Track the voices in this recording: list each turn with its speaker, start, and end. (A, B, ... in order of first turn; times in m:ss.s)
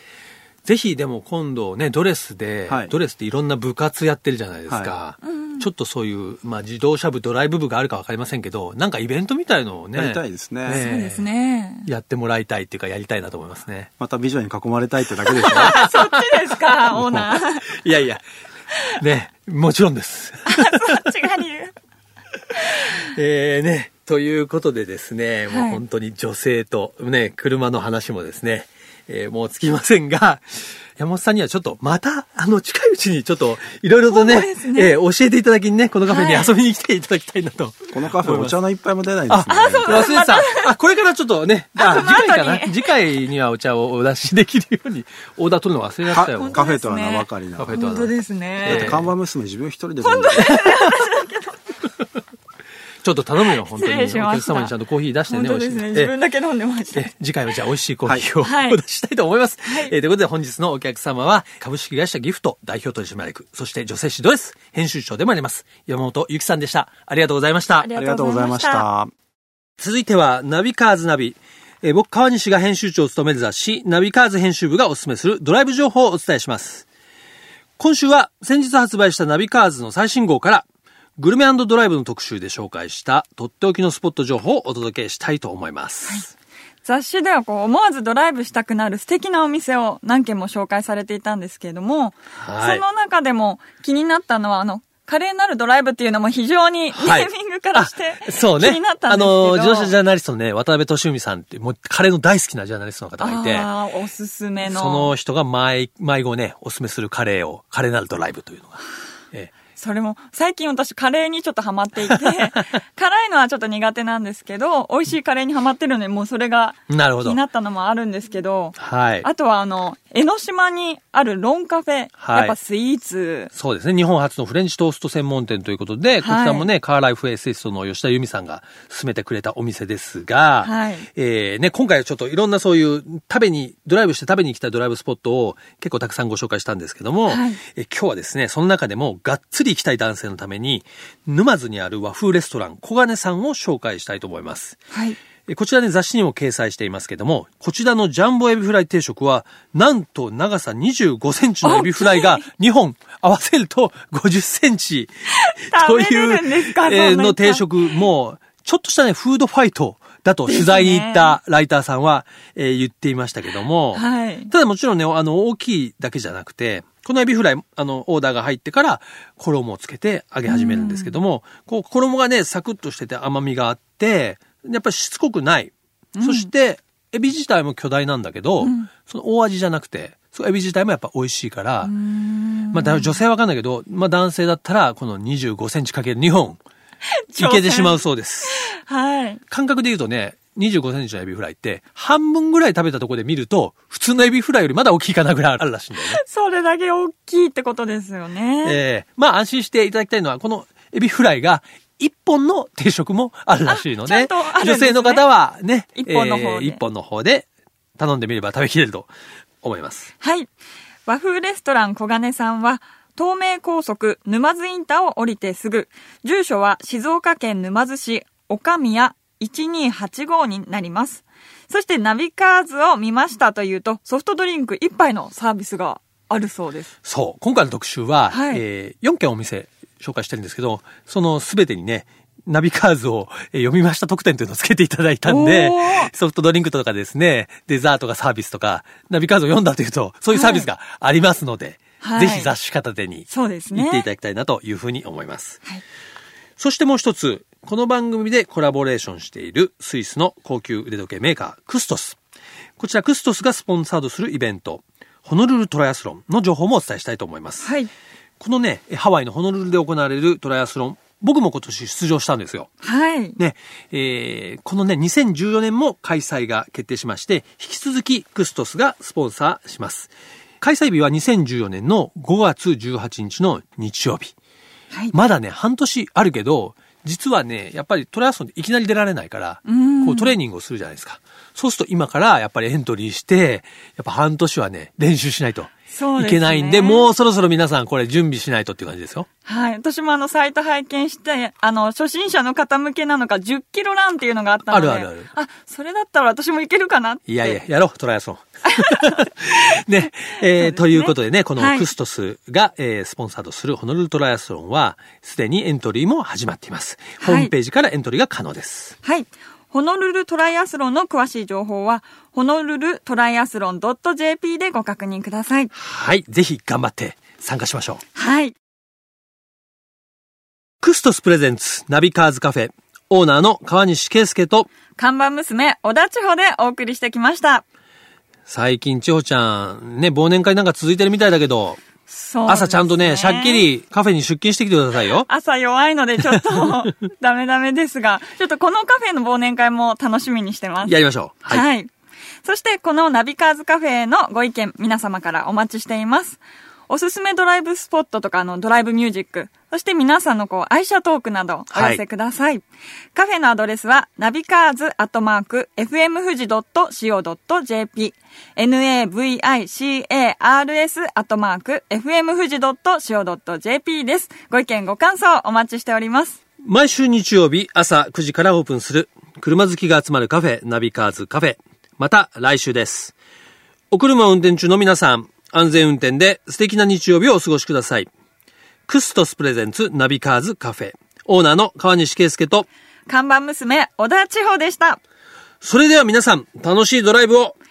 0:00.6-0:11.3 A
0:02.7-0:02.9 B
0:04.7-0:04.9 B
0:05.2-0:05.7 C
0:09.9-0:10.8 B
0:10.7-0:11.9 C
0:11.8-0:13.9 A
0:14.0-0:15.9 B
0:15.4-0:17.7 C
0:15.5-0:18.2 A
0:18.9-0:21.1 A
0:20.4-0:21.7 C
0:22.5-0:38.6 A
0:25.5-0:25.8 C
0:34.1-0:35.0 C
0:36.1-0:36.6 C
0:37.9-0:40.1 B
0:39.3-0:46.6 A
0:39.5-0:40.8 C
0:41.8-0:42.8 C
0:46.1-0:47.8 B
0:46.2-0:49.0 C
0:47.6-0:49.1 A
0:48.6-0:50.7 B
0:50.0-0:51.6 C
0:50.4-0:50.9 A
0:53.0-0:56.1 A
0:53.6-0:54.7 C
0:55.2-0:57.1 C
0:56.9-1:07.9 A
0:58.4-0:58.8 C
0:59.6-0:59.9 C
1:07.8-1:08.8 C
1:07.9-1:09.1 B
1:09.8-1:16.8 A
1:17.8-1:20.6 A
1:21.2-1:26.3 A
1:26.8-1:39.9 C
1:32.4-1:32.8 A
1:36.9-1:43.7 A
1:43.2-1:45.1 C
1:44.6-1:49.5 A
1:49.8-2:03.5 C
1:56.9-1:57.4 A
1:58.8-1:59.3 A
2:02.2-2:02.6 A
2:03.5-2:24.8 A
2:06.2-2:06.7 C
2:10.6-2:11.1 C
2:17.3-2:17.6 C
2:24.9-2:25.2 C
2:25.5-3:01.9 A
2:31.6-2:32.4 C
2:35.3-2:38.0 C
2:40.5-2:41.4 C
2:43.9-2:44.5 C
2:50.4-2:51.1 C
2:56.1-2:56.5 C
2:58.6-2:58.9 C
3:01.8-3:03.2 C
3:02.7-3:06.6 A
3:07.2-3:09.4 C
3:07.4-3:08.7 A
3:09.5-3:16.2 A
3:16.1-3:18.8 C
3:18.6-3:29.1 A
3:23.6-3:25.2 C
3:25.9-3:26.8 C
3:29.6-3:30.1 A
3:30.2-3:30.5 C
3:31.1-3:46.9 C
3:47.0-4:05.6 A
3:48.3-3:48.6 C
3:55.2-3:56.1 C
4:00.3-4:00.7 C
4:02.0-4:02.5 C
4:03.3-4:04.1 C
4:06.6-4:12.2 A
4:12.8-4:17.7 A
4:17.6-4:17.9 C
4:18.4-4:22.7 A
4:22.8-4:23.4 C
4:23.4-4:34.3 A
4:35.1-4:49.3 A
4:39.6-4:40.4 C
4:45.9-4:47.1 C
4:49.4-4:57.6 C
4:54.7-4:55.3 A
4:57.3-5:09.0 A
4:58.7-4:59.1 C
5:00.0-5:01.9 C
5:07.2-5:07.5 C
5:09.0-5:15.7 C
5:15.7-5:18.0 A
5:18.2-5:18.5 C
5:20.8-5:24.7 A
5:25.0-5:27.6 C
5:28.5-5:31.8 A
5:32.1-5:33.7 C
5:32.5-5:35.3 A
5:35.3-5:40.9 C
5:40.8-5:41.6 A
5:41.5-5:41.9 C
5:42.4-5:52.6 C
5:51.7-5:52.0 A
5:53.1-6:06.4 C
6:06.6-6:13.1 A
6:13.9-6:18.1 A
6:18.9-6:22.7 A
6:23.1-6:25.0 C
6:25.6-6:27.6 A